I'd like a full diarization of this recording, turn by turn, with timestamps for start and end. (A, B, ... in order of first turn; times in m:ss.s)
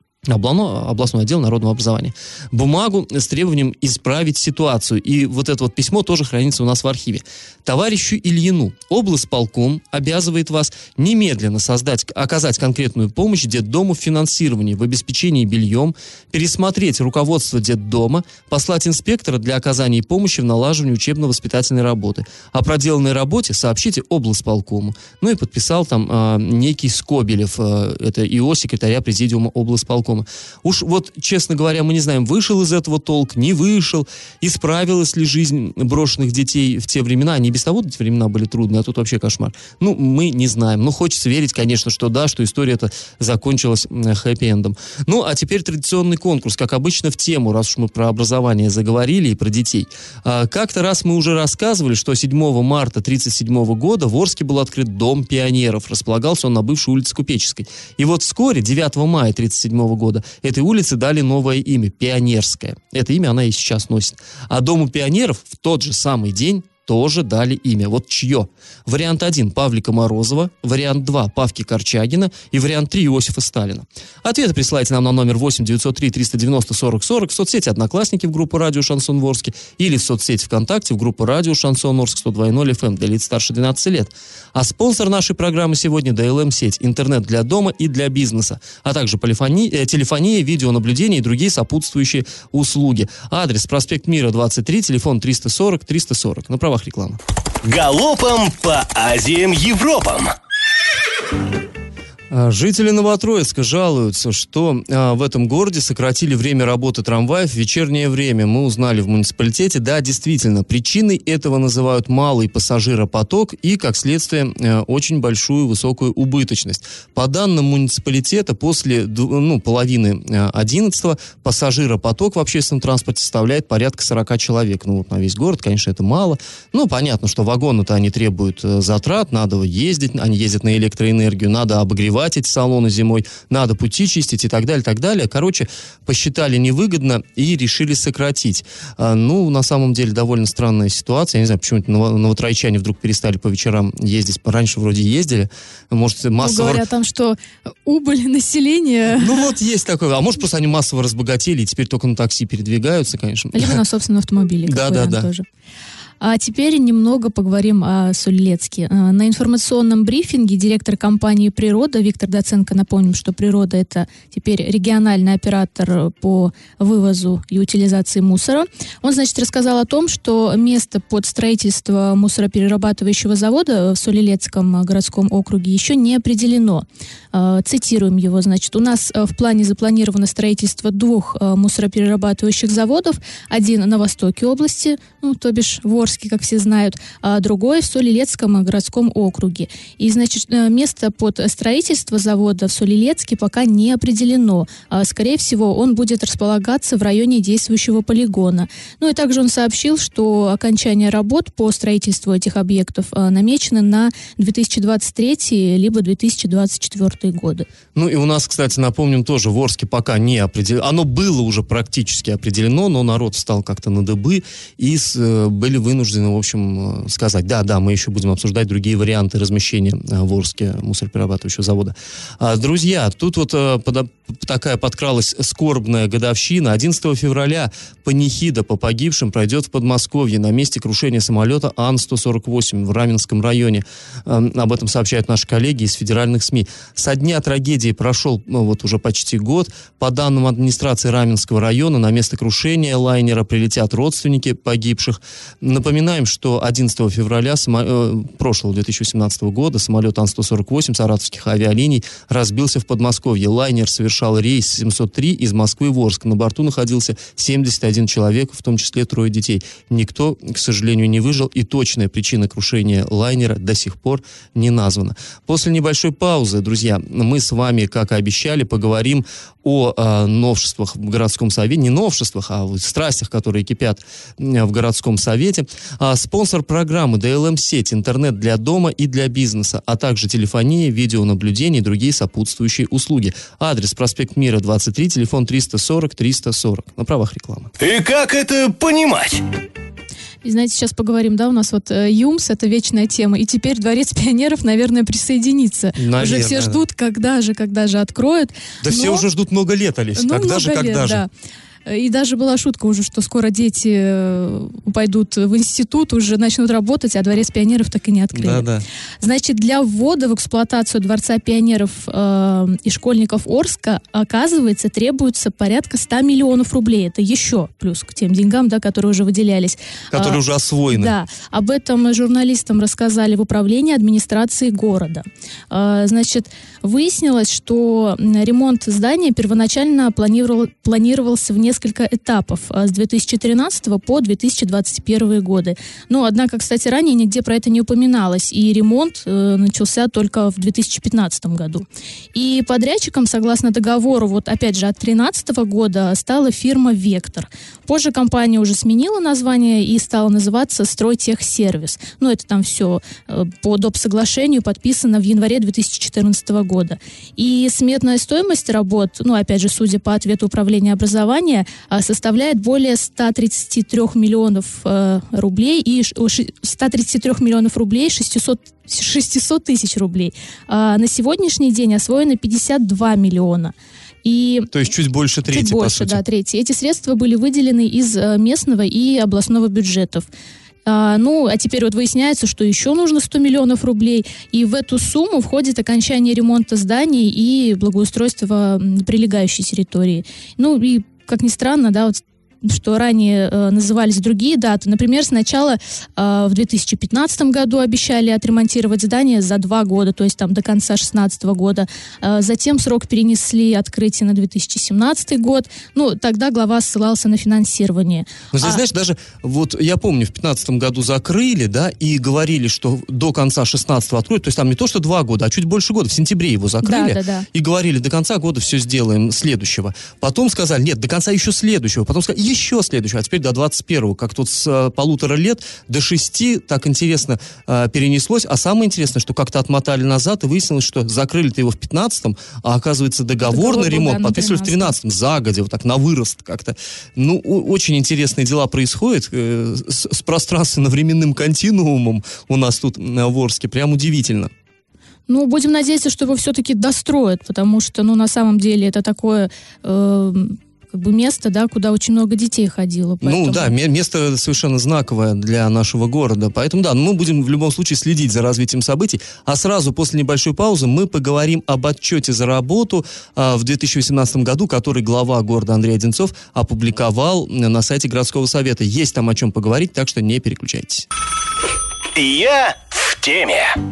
0:00.3-1:37.2 A
1:37.6-1:40.3 B
1:42.3-2:26.8 A
2:26.4-2:29.5 C
2:29.2-2:33.8 A
2:33.5-2:35.4 C
2:34.6-2:35.3 A
2:36.2-3:27.7 C
3:27.9-4:47.7 A
4:47.8-4:49.4 B
4:50.4-4:59.2 C
4:56.0-4:56.8 A
4:58.8-5:01.2 A
5:00.2-5:01.3 C
5:01.8-5:08.6 C
5:08.3-5:08.8 A
5:09.2-5:20.4 C
5:20.1-5:21.1 A
5:20.9-6:14.7 C
6:14.7-6:16.2 A
6:15.5-6:20.3 C
6:20.8-6:48.8 C
6:48.5-7:24.5 A
6:56.8-6:57.4 C
7:13.4-7:15.0 C
7:25.3-7:33.7 C
7:33.2-7:51.1 A
7:52.2-7:53.7 B